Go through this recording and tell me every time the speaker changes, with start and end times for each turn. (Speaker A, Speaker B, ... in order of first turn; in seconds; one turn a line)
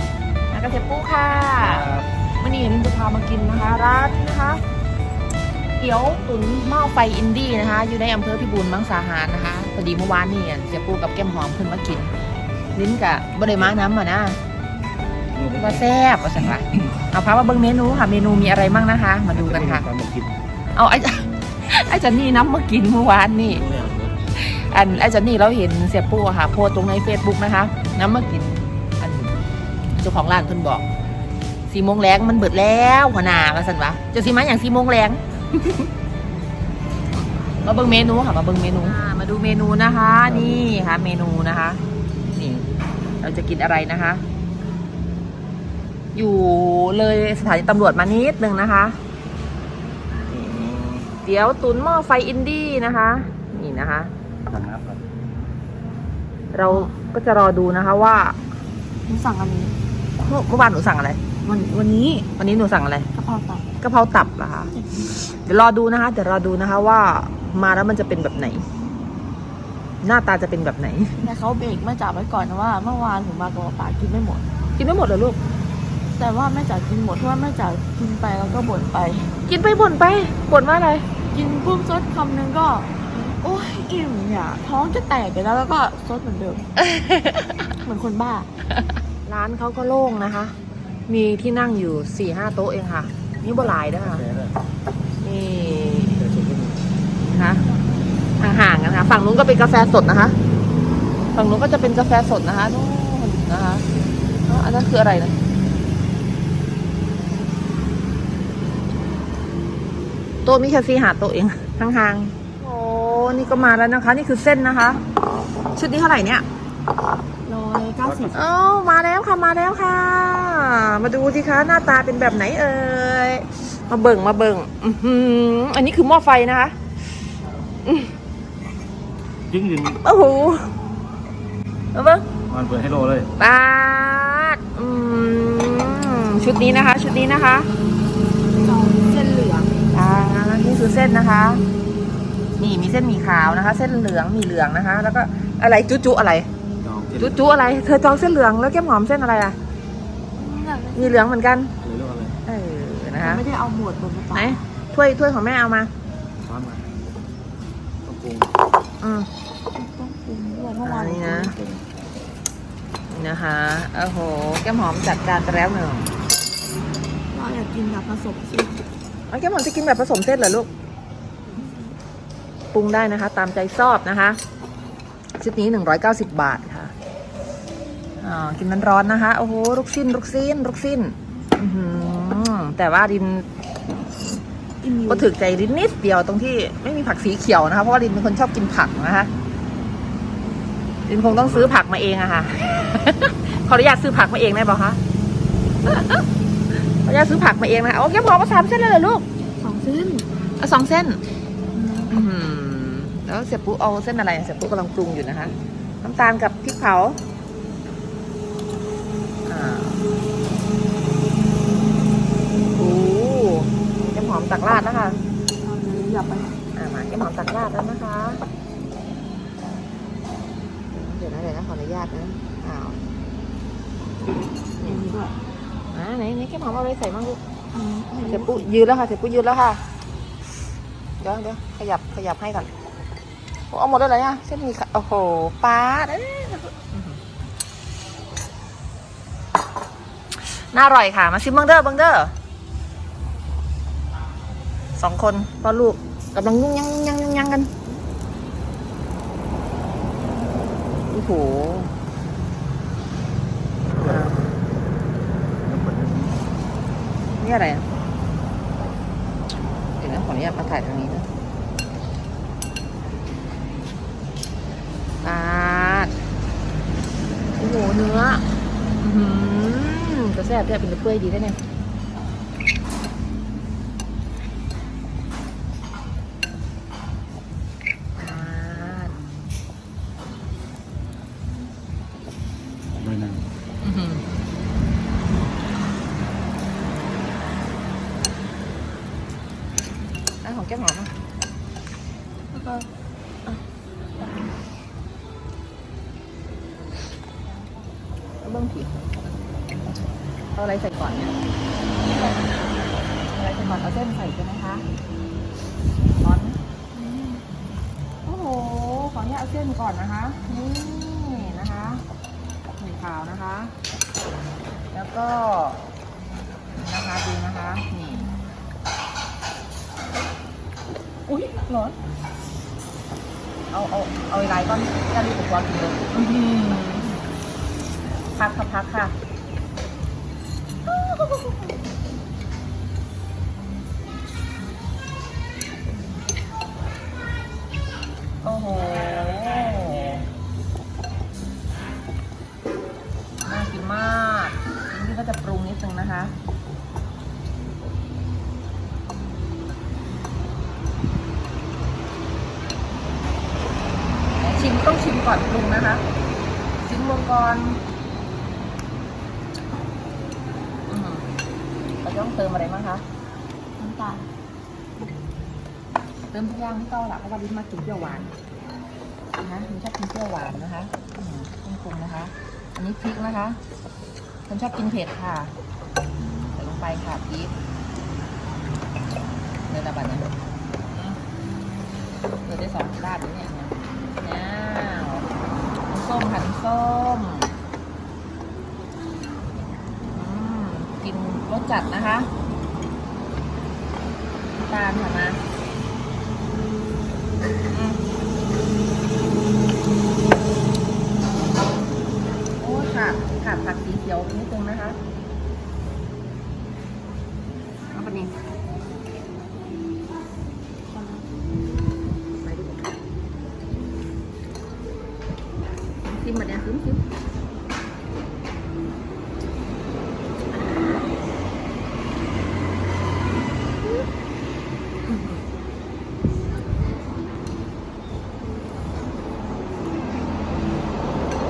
Speaker A: 0.5-4.6
Speaker B: 1.6-2.1
Speaker A: 5.8-12.1
Speaker A: 12.8-14.4
Speaker B: 15.3-15.9
Speaker A: 15.6-19.9
Speaker B: 19.3-20.4
Speaker A: 20.8-23.6
Speaker B: 23.5-24.2
Speaker A: 24.4-29.4
Speaker A: 29.9-30.9
Speaker A: 31.7-35.9
Speaker A: 37.6-41.8
Speaker B: 40.3-40.6
Speaker A: 42.3-42.7
Speaker A: 43.2-44.2
Speaker A: 46.1-49.0
Speaker B: 50.3-51.1
Speaker A: 51.2-54.1
Speaker B: 54.5-55.0
Speaker A: 56.5-58.4
Speaker C: 56.6-56.9
Speaker C: 59.1-59.8
Speaker A: 60.2-61.2
Speaker C: 61.4-62.3
Speaker A: 62.4-63.1
Speaker C: 63.1-63.7
Speaker A: 63.8-68.7
Speaker C: 64.7-65.2
Speaker A: 70.0-71.2
Speaker C: 71.2-74.5
Speaker A: 74.8-75.4
Speaker C: 76.2-79.3
Speaker A: 79.5-81.1
Speaker C: 81.3-86.7
Speaker A: 86.8-87.7
Speaker C: 87.8-88.5
Speaker A: 89.2-90.5
Speaker A: 91.1-94.2
Speaker B: 94.1-94.5
Speaker A: 95.2-96.3
Speaker B: 96.2-96.8
Speaker A: 97.2-97.7
Speaker A: 98.4-100.4
Speaker A: 101.3-103.9
Speaker A: 104.5-105.4
Speaker A: 110.5-115.0
Speaker A: 115.8-116.5
Speaker C: 117.5-118.4
Speaker B: 118.0-118.4
Speaker A: 118.3-126.8
Speaker A: 127.8-128.1
Speaker B: 129.5-130.0
Speaker A: 130.0-130.7
Speaker A: 131.9-132.3
Speaker B: 132.5-133.3
Speaker A: 133.4-137.7
Speaker C: 138.6-139.7
Speaker A: 139.9-141.6
Speaker A: 142.6-146.5
Speaker B: 146.8-147.4
Speaker A: 147.2-149.6
Speaker C: 150.4-151.2
Speaker A: 150.9-151.7
Speaker B: 151.8-152.4
Speaker A: 152.5-153.4
Speaker C: 153.2-154.6
Speaker A: 154.3-155.9
Speaker B: 156.4-156.9
Speaker B: 158.1-158.5
Speaker A: 159.0-159.3
Speaker C: 159.8-161.6
Speaker A: 160.8-161.6
Speaker B: 161.6-161.8
Speaker A: 163.1-166.1
Speaker C: 167.3-168.9
Speaker A: 169.3-170.7
Speaker C: 171.5-171.9
Speaker A: 172.7-174.4
Speaker A: 175.4-176.9
Speaker A: 178.2-183.5
Speaker C: 184.8-185.3
Speaker A: 185.1-189.3
Speaker A: 191.1-195.0
Speaker B: 191.3-191.7
Speaker A: 195.9-196.2
Speaker A: 196.9-199.2
Speaker C: 199.6-200.2
Speaker A: 200.6-201.2
Speaker C: 201.7-202.1
Speaker A: 202.1-207.2
Speaker A: 209.5-210.1
Speaker A: 212.8-215.2
Speaker C: 215.6-216.6
Speaker A: 216.8-218.4
Speaker A: 220.9-223.0
Speaker A: 224.8-225.1
Speaker C: 224.8-225.3
Speaker A: 225.9-227.4
Speaker C: 227.7-228.7
Speaker A: 228.2-229.8
Speaker A: 231.2-232.7
Speaker A: 233.7-237.2
Speaker A: 240.3-242.3
Speaker A: 245.0-247.7
Speaker A: 251.1-251.9
Speaker A: 254.0-254.6
Speaker B: 255.6-256.4
Speaker A: 257.4-257.9
Speaker A: 260.0-261.3
Speaker A: 265.2-266.1
Speaker A: 267.6-268.4
Speaker A: 269.0-271.6
Speaker A: 278.2-279.2
Speaker B: 283.0-283.4
Speaker A: 283.8-284.2
Speaker A: 290.4-291.1
Speaker A: 292.5-292.9
Speaker A: 294.2-294.5
Speaker A: 298.4-299.0
Speaker A: 300.6-301.4
Speaker A: 302.1-302.5
Speaker A: 303.3-304.9
Speaker A: 306.2-307.1
Speaker C: 307.0-307.4
Speaker A: 308.3-312.0
Speaker A: 312.8-313.7
Speaker A: 314.9-315.9
Speaker A: 316.8-318.3
Speaker A: 321.3-322.0
Speaker A: 323.7-327.2
Speaker A: 328.3-329.1
Speaker A: 330.9-331.7
Speaker A: 338.4-340.2
Speaker A: 343.4-346.3
Speaker A: 354.4-356.0
Speaker A: 356.8-357.8
Speaker A: 360.9-361.3
Speaker A: 362.0-363.0
Speaker C: 363.8-364.3
Speaker A: 366.3-368.3
Speaker A: 369.4-373.6
Speaker A: 374.5-375.5
Speaker A: 376.4-377.5
Speaker A: 379.7-380.4
Speaker A: 380.9-381.2
Speaker A: 382.4-385.3
Speaker A: 385.9-387.5
Speaker A: 390.1-392.3
Speaker A: 394.6-395.4
Speaker A: 397.7-398.0
Speaker A: 402.6-405.0
Speaker A: 407.9-408.3
Speaker C: 411.0-411.2
Speaker A: 412.4-412.9
Speaker A: 416.0-417.0
Speaker A: 425.1-425.4